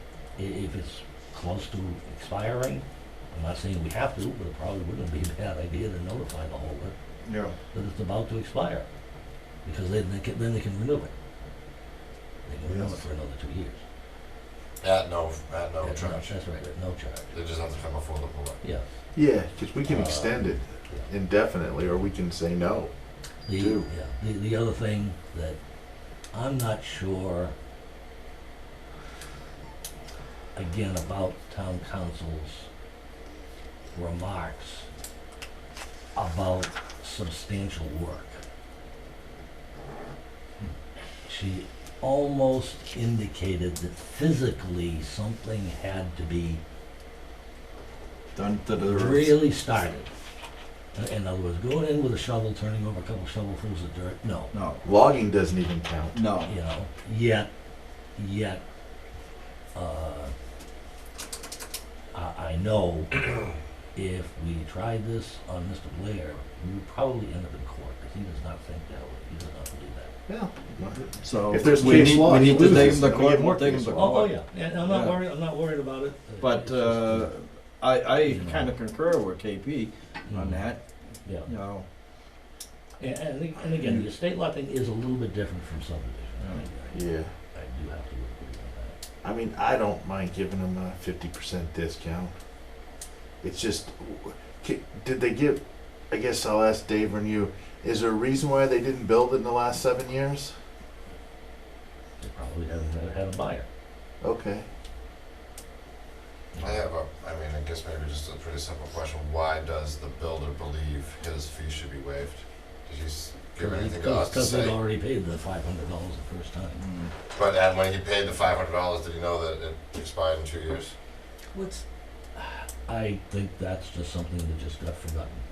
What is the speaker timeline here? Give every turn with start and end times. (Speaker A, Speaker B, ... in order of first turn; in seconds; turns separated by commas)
Speaker A: 0.4-7.0, Speaker B: 7.2-7.6, Speaker A: 7.7-8.9, Speaker A: 9.7-11.1, Speaker A: 12.4-13.8, Speaker C: 12.7-13.1, Speaker D: 14.8-16.4, Speaker A: 15.8-17.3, Speaker D: 17.3-18.6, Speaker C: 19.1-22.9, Speaker A: 19.9-21.1, Speaker A: 23.5-25.6, Speaker C: 23.5-23.9, Speaker A: 26.3-27.5, Speaker A: 30.6-32.7, Speaker A: 33.9-34.9, Speaker A: 36.1-38.4, Speaker A: 41.3-46.6, Speaker B: 48.4-49.4, Speaker A: 48.8-50.1, Speaker A: 50.9-54.5, Speaker B: 54.5-54.8, Speaker C: 54.8-56.2, Speaker B: 56.1-56.5, Speaker A: 56.5-57.5, Speaker A: 58.2-58.6, Speaker A: 59.7-60.3, Speaker A: 62.1-63.2, Speaker A: 64.0-70.1, Speaker C: 70.3-74.0, Speaker B: 71.2-75.2, Speaker A: 72.0-73.0, Speaker A: 73.9-77.3, Speaker B: 76.4-81.9, Speaker A: 78.2-78.8, Speaker A: 80.3-80.7, Speaker A: 81.2-81.5, Speaker A: 83.0-89.0, Speaker B: 83.8-84.1, Speaker B: 86.4-86.7, Speaker C: 86.9-87.3, Speaker C: 89.2-92.3, Speaker C: 93.4-100.5, Speaker A: 102.2-103.7, Speaker C: 104.2-104.7, Speaker D: 106.6-114.8, Speaker A: 113.6-116.8, Speaker B: 116.8-117.1, Speaker D: 117.3-121.0, Speaker A: 122.4-125.4